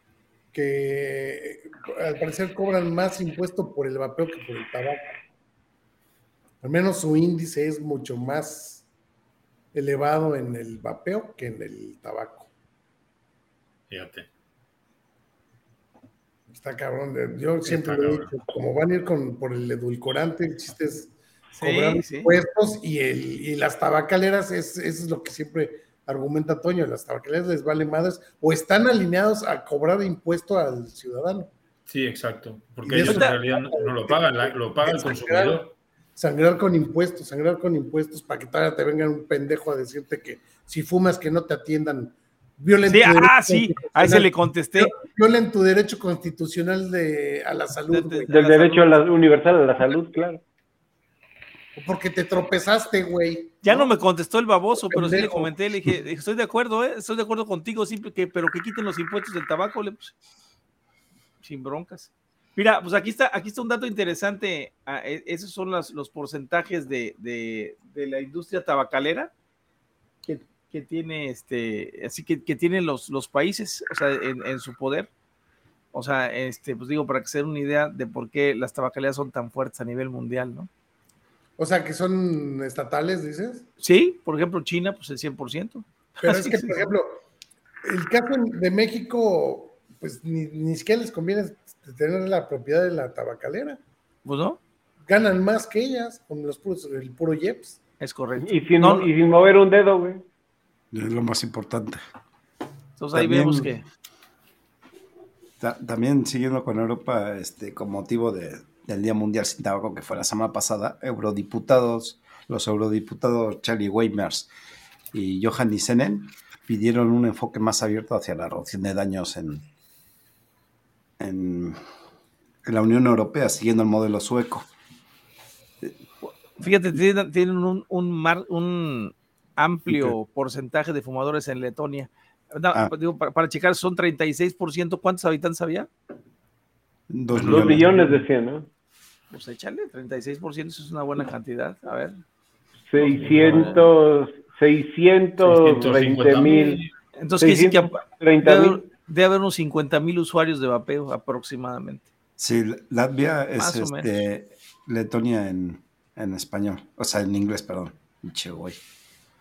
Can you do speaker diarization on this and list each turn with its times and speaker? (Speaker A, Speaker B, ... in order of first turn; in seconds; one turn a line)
Speaker A: 0.5-5.1
Speaker A: 6.6-8.8
Speaker A: 9.7-12.5
Speaker B: 13.9-14.3
Speaker A: 16.5-31.5
Speaker B: 17.6-18.3
Speaker C: 21.6-22.3
Speaker B: 31.9-35.7
Speaker A: 32.8-35.6
Speaker C: 33.0-33.4
Speaker A: 36.2-48.3
Speaker C: 42.9-45.0
Speaker C: 47.9-49.0
Speaker D: 48.3-50.4
Speaker A: 51.8-53.9
Speaker C: 53.6-60.1
Speaker A: 54.9-55.5
Speaker C: 61.4-69.3
Speaker C: 70.3-75.1
Speaker C: 75.9-80.7
Speaker A: 81.6-83.7
Speaker C: 83.8-86.8
Speaker A: 86.2-87.2
Speaker A: 87.8-93.8
Speaker C: 94.2-94.6
Speaker A: 95.1-97.8
Speaker C: 98.0-99.1
Speaker D: 98.4-100.2
Speaker E: 100.9-102.0
Speaker C: 103.0-103.8
Speaker E: 103.1-103.7
Speaker E: 105.6-114.5
Speaker E: 115.1-119.7
Speaker E: 121.2-121.8
Speaker E: 122.7-124.7
Speaker C: 126.6-135.9
Speaker E: 129.9-130.1
Speaker E: 137.1-137.9
Speaker B: 137.3-138.2
Speaker D: 137.4-138.7
Speaker C: 139.3-142.2
Speaker D: 142.9-146.8
Speaker B: 143.0-143.8
Speaker C: 143.1-143.8
Speaker B: 145.4-146.9
Speaker C: 147.2-152.1
Speaker D: 147.4-148.8
Speaker E: 152.4-158.8
Speaker C: 153.6-154.1